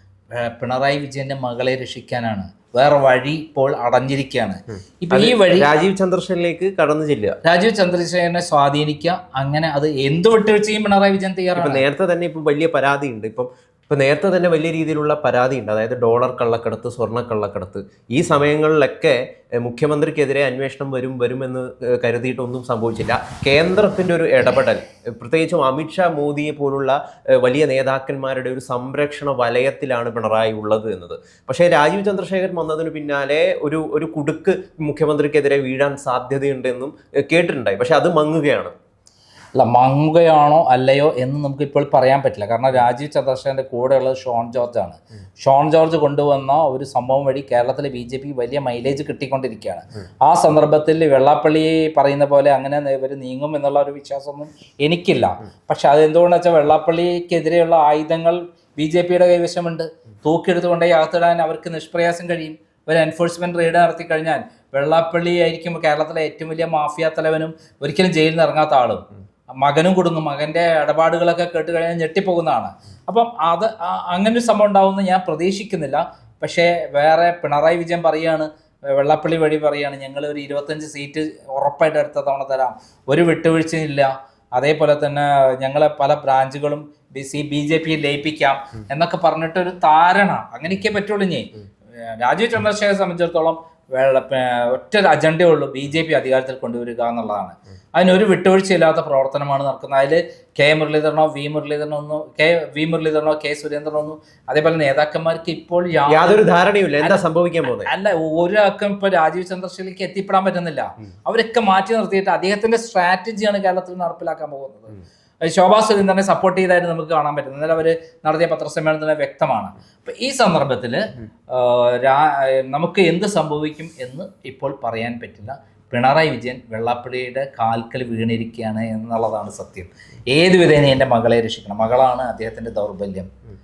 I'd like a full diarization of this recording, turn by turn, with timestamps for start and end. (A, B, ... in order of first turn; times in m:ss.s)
0:00.3-0:05.7 A
0:05.1-0:07.4 B
0:07.4-0:11.8 A
0:11.6-0:38.7 B
0:39.6-1:09.0 A
1:09.6-1:46.5 A
1:46.1-1:47.9 B
1:47.8-2:13.3 A